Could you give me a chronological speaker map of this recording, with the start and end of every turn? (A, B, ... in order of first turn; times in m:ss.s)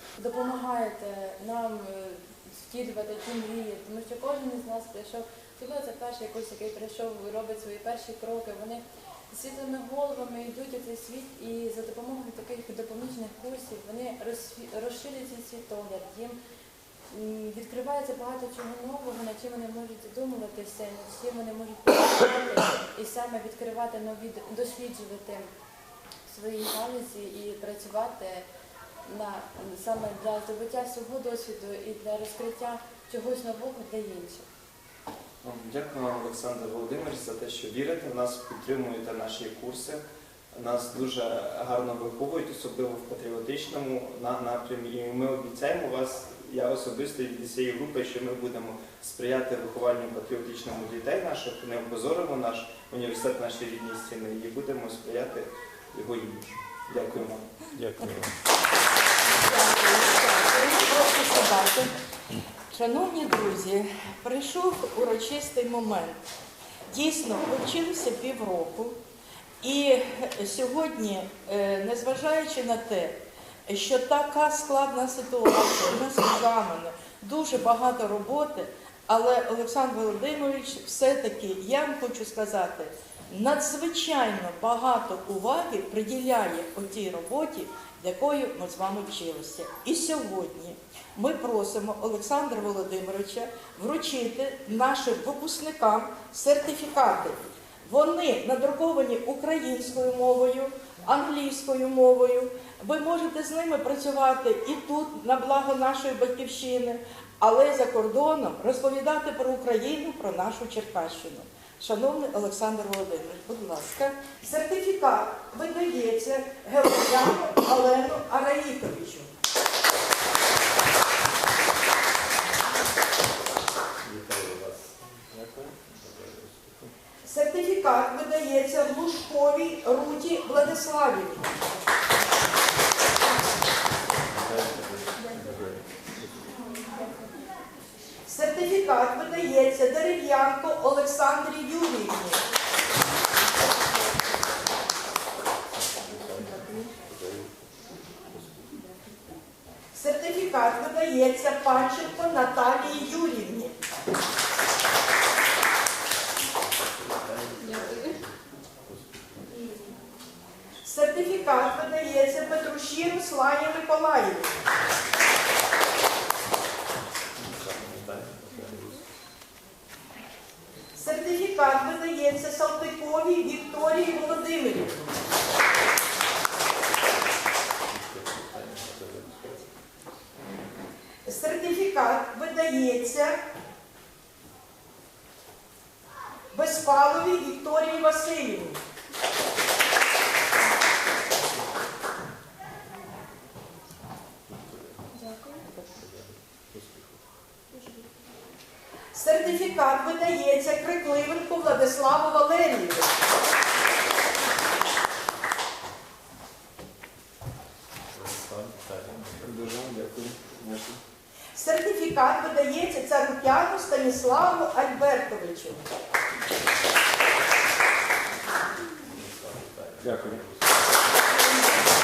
0:00.2-0:16.4 A
0:17.1-0:25.5 A
0:26.3-0:28.5 A
0:29.1-0:34.5 A
0:35.4-0:57.5 B
0:57.7-0:58.3 C
0:59.4-1:01.9 D
1:02.7-1:06.2 D
1:06.9-1:09.0 D
1:09.6-1:59.3 D
2:04.1-2:06.4 C
2:07.2-2:11.5 D
2:14.5-2:15.7 C
2:18.3-2:22.4 D
2:29.9-2:33.8 D
2:37.2-2:38.1 C
2:40.8-2:44.6 D
2:47.5-2:48.8 C
2:51.0-2:55.1 D
2:57.9-2:59.6 C
3:01.2-3:03.4 D
3:06.5-3:08.8 D
3:16.7-3:17.0 C
3:19.1-3:23.3 D
3:28.2-3:29.3 C
3:29.4-3:31.0 B
3:31.5-3:35.8 D
3:39.2-3:40.7 C
3:40.1-3:40.4 B
3:41.4-3:41.6 D